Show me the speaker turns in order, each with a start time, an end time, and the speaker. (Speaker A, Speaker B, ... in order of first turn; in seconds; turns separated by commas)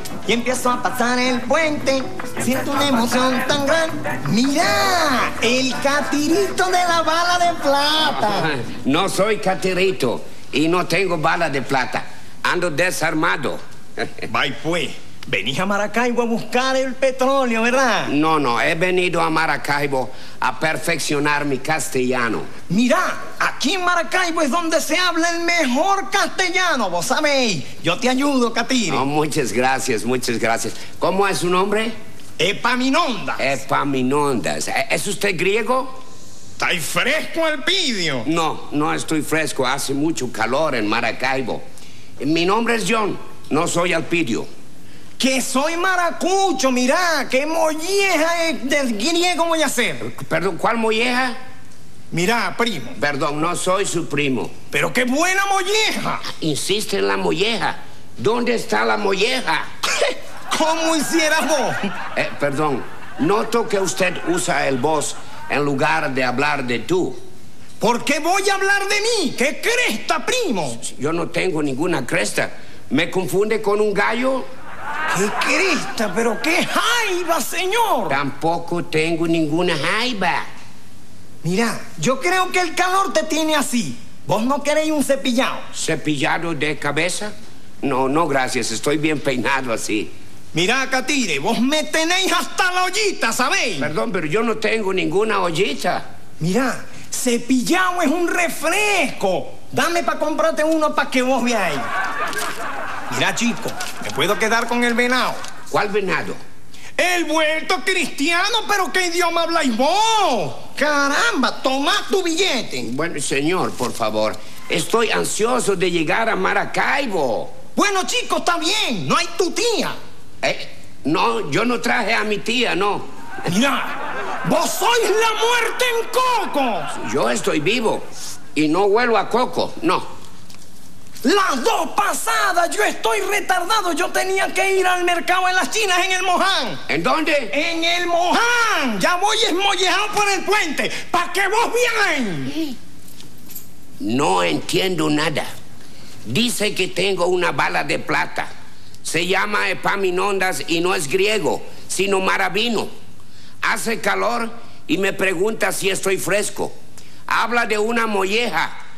Speaker A: 0.3-8.5, Speaker B: 8.1-14.2, Speaker A: 14.3-18.1, Speaker B: 18.1-22.5, Speaker A: 22.7-29.1, Speaker B: 28.9-31.9, Speaker A: 32.4-33.6, Speaker B: 33.4-36.0, Speaker A: 36.6-38.3, Speaker B: 38.2-41.6, Speaker B: 42.2-44.5, Speaker A: 45.2-50.0, Speaker B: 50.0-51.4, Speaker A: 52.1-53.0, Speaker B: 53.0-54.5, Speaker A: 54.7-56.2, Speaker B: 56.3-59.7, Speaker A: 59.9-61.8, Speaker B: 62.1-67.2, Speaker A: 67.8-70.8, Speaker B: 70.8-74.5, Speaker A: 75.1-78.2, Speaker B: 78.1-80.5, Speaker A: 81.4-85.7, Speaker B: 85.8-90.1, Speaker A: 90.5-93.9, Speaker B: 93.8-96.0, Speaker A: 96.4-101.8, Speaker A: 103.1-105.4, Speaker B: 105.7-106.4, Speaker A: 107.0-112.9, Speaker B: 112.8-117.5, Speaker A: 117.8-120.0, Speaker B: 120.4-123.0, Speaker A: 123.5-126.9, Speaker B: 126.9-130.1, Speaker A: 131.2-136.8, Speaker B: 136.9-137.5, Speaker A: 137.5-142.6, Speaker B: 144.0-145.5, Speaker B: 146.3-148.5, Speaker B: 149.0-152.9, Speaker B: 153.6-156.7, Speaker B: 157.3-158.7